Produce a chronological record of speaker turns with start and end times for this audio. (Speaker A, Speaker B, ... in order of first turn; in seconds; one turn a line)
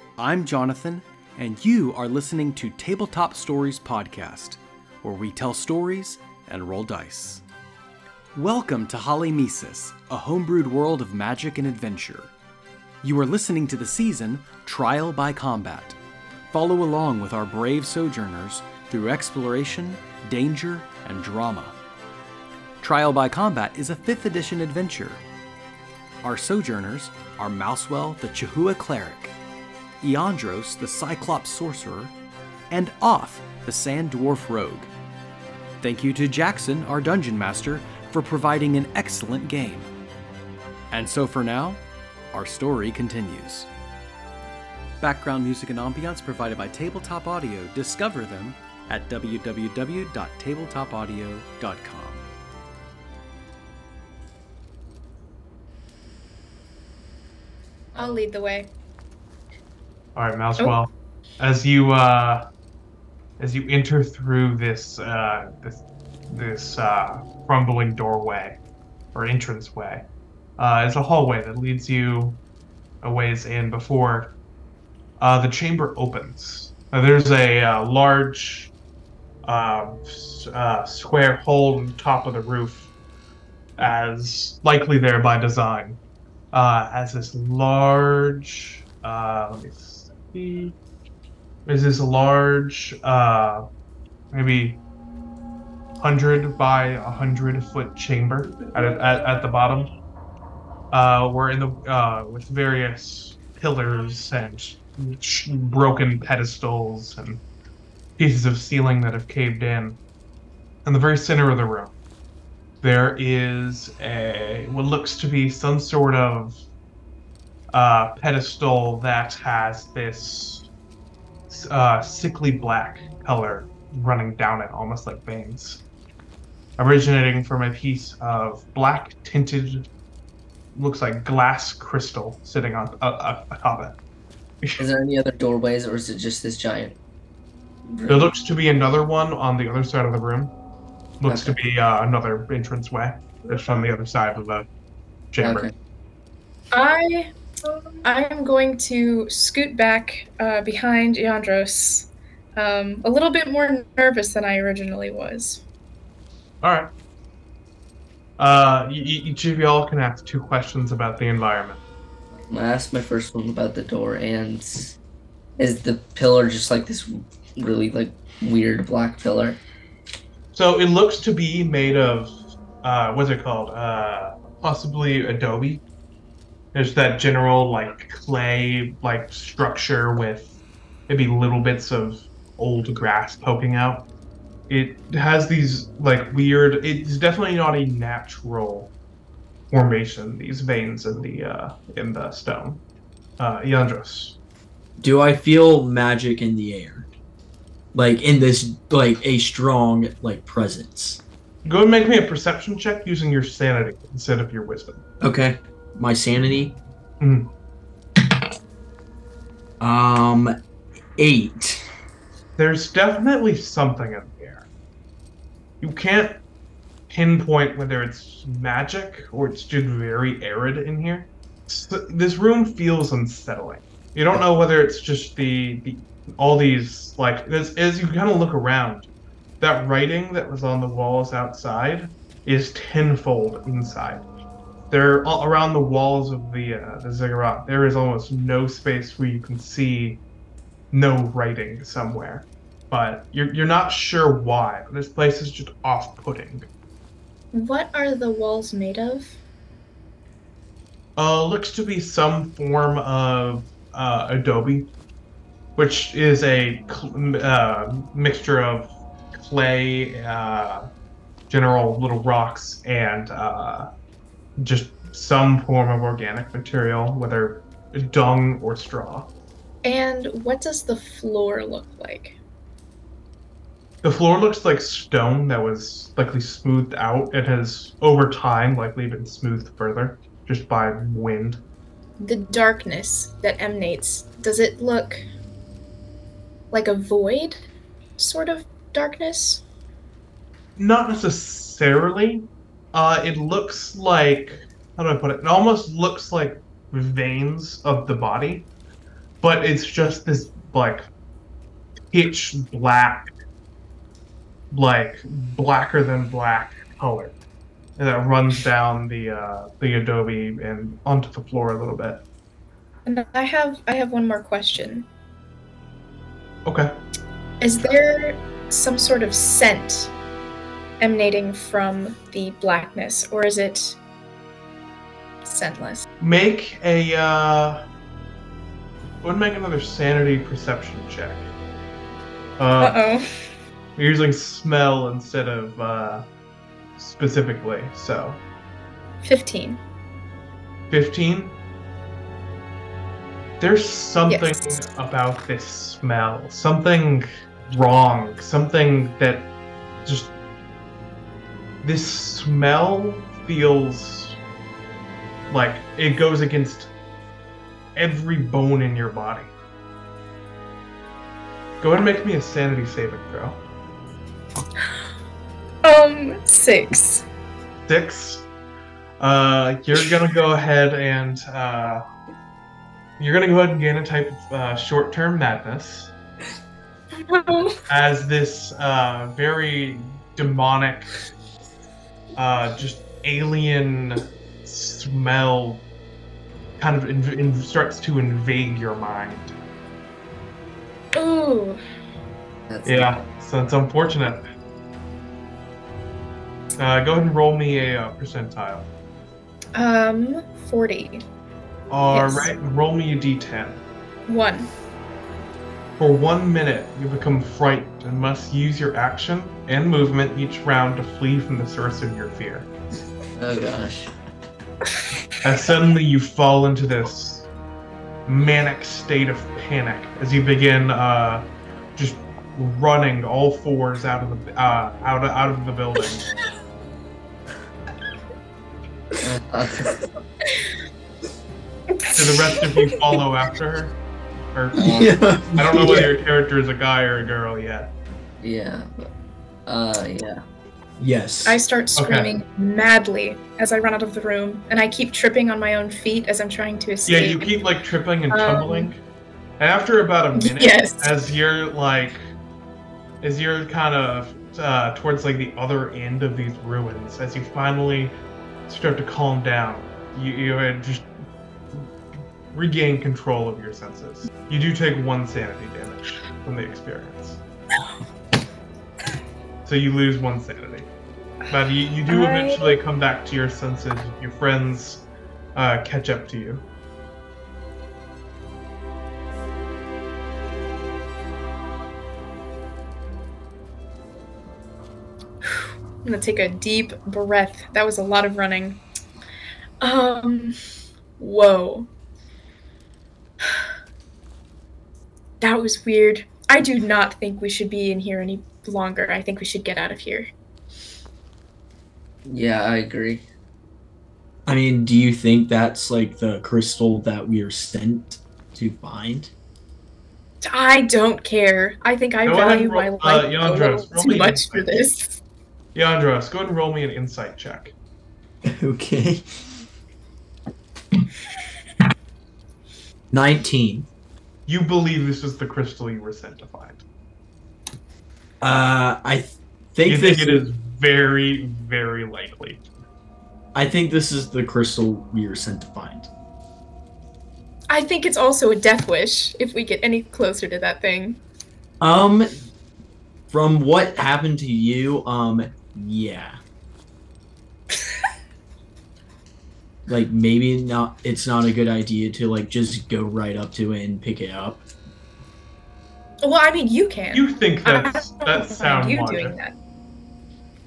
Speaker A: 0.2-7.4
Speaker A: 8.3-12.3
Speaker A: 13.0-16.0
Speaker A: 16.5-21.7
Speaker A: 22.8-25.2
Speaker A: 26.2-29.3
Speaker A: 30.0-32.1
Speaker A: 32.7-34.9
Speaker A: 35.8-39.9
Speaker A: 40.9-41.8
Speaker A: 42.3-43.7
Speaker A: 45.0-52.2
Speaker B: 57.9-58.7
Speaker C: 60.1-62.5
Speaker C: 63.4-68.6
Speaker C: 69.1-70.0
Speaker C: 70.6-72.4
Speaker C: 73.0-74.3
Speaker C: 75.2-78.7
Speaker C: 79.4-82.9
Speaker C: 83.8-86.0
Speaker C: 86.5-90.7
Speaker C: 91.7-93.6
Speaker C: 94.3-94.8
Speaker C: 96.0-99.9
Speaker C: 100.9-107.4
Speaker C: 108.2-110.0
Speaker C: 110.8-111.9
Speaker C: 112.8-116.6
Speaker C: 117.7-120.7
Speaker C: 121.5-125.8
Speaker C: 126.8-129.9
Speaker C: 130.7-133.9
Speaker D: 134.8-137.0
Speaker D: 137.8-138.3
Speaker C: 138.1-140.5
Speaker C: 141.2-144.7
Speaker D: 141.3-141.5
Speaker C: 145.3-145.7
Speaker D: 145.4-145.7
Speaker B: 146.7-147.3
Speaker B: 148.0-155.6
Speaker C: 156.6-156.9
Speaker C: 158.4-161.8
Speaker D: 162.5-164.9
Speaker D: 165.6-169.6
Speaker C: 170.5-175.8
Speaker C: 176.7-180.5
Speaker C: 181.1-184.1
Speaker C: 184.7-188.9
Speaker C: 189.7-192.8
Speaker C: 193.4-194.4
Speaker E: 195.0-197.1
Speaker E: 197.9-201.2
Speaker C: 201.6-205.0
Speaker E: 205.2-206.8
Speaker C: 207.2-207.5
Speaker E: 209.8-210.6
Speaker E: 211.2-211.9
Speaker C: 212.6-214.7
Speaker C: 215.8-216.4
Speaker C: 217.1-229.1
Speaker C: 229.6-234.2
Speaker C: 234.9-240.2
Speaker C: 240.9-246.7
Speaker B: 247.5-249.4
Speaker C: 251.2-254.9
Speaker C: 255.8-260.9
Speaker C: 261.5-263.9
Speaker C: 264.6-269.3
Speaker B: 269.8-272.4
Speaker C: 274.0-281.6
Speaker B: 282.2-285.2
Speaker B: 286.7-289.6
Speaker C: 290.8-298.7
Speaker C: 299.4-301.1
Speaker C: 302.1-303.3
Speaker C: 304.7-307.4
Speaker C: 308.0-312.2
Speaker B: 313.1-315.1
Speaker C: 316.6-316.9
Speaker B: 317.6-320.1
Speaker B: 321.0-324.0
Speaker B: 325.4-326.0
Speaker C: 326.2-327.8
Speaker C: 329.2-331.5
Speaker C: 332.6-333.0
Speaker B: 332.8-333.2
Speaker C: 333.9-336.2
Speaker C: 337.0-338.4
Speaker B: 339.2-339.8
Speaker C: 340.9-341.5
Speaker C: 343.6-349.5
Speaker B: 344.3-344.8
Speaker C: 350.0-350.3
Speaker C: 351.8-354.4
Speaker C: 355.5-356.9
Speaker C: 357.9-359.5
Speaker C: 361.8-363.6
Speaker B: 365.8-367.2
Speaker C: 367.9-368.4
Speaker C: 369.2-372.0
Speaker C: 373.2-376.1
Speaker B: 377.1-377.8
Speaker C: 377.9-381.1
Speaker C: 382.4-385.8
Speaker C: 386.8-389.5
Speaker B: 391.1-391.8
Speaker D: 392.7-393.2
Speaker C: 392.8-394.4
Speaker C: 396.8-398.9
Speaker B: 399.7-401.2
Speaker C: 401.9-403.8
Speaker B: 402.1-402.5
Speaker B: 404.3-404.7
Speaker C: 406.0-412.7
Speaker D: 413.4-414.1
Speaker C: 415.4-417.5
Speaker C: 418.3-421.4
Speaker C: 421.9-426.2
Speaker D: 429.2-430.0
Speaker B: 432.0-432.7
Speaker C: 432.1-433.9
Speaker C: 434.5-437.9
Speaker E: 434.8-436.1
Speaker D: 434.8-435.1
Speaker D: 438.4-439.1
Speaker D: 439.7-440.4
Speaker E: 441.0-441.6
Speaker B: 441.4-447.6
Speaker C: 441.9-442.3
Speaker C: 447.1-449.0
Speaker B: 448.3-448.9
Speaker C: 449.6-452.2
Speaker B: 450.3-451.1
Speaker C: 453.2-458.1
Speaker C: 458.7-461.1
Speaker C: 462.5-467.4
Speaker C: 469.6-470.9
Speaker C: 471.5-476.6
Speaker B: 472.1-472.8
Speaker B: 485.4-488.8
Speaker B: 489.8-490.6
Speaker B: 491.2-491.9
Speaker B: 493.4-493.7
Speaker B: 495.4-500.3
Speaker D: 502.2-503.2
Speaker E: 504.4-509.3
Speaker B: 510.4-515.1
Speaker C: 512.2-514.8
Speaker C: 515.7-517.7
Speaker E: 518.4-519.3
Speaker E: 523.1-523.9
Speaker C: 524.5-526.8
Speaker E: 528.4-530.5
Speaker C: 529.9-532.6
Speaker E: 533.5-536.1
Speaker B: 537.7-541.2
Speaker E: 541.8-542.3
Speaker E: 543.3-546.4
Speaker E: 549.9-554.6
Speaker B: 556.2-559.5
Speaker C: 557.1-559.4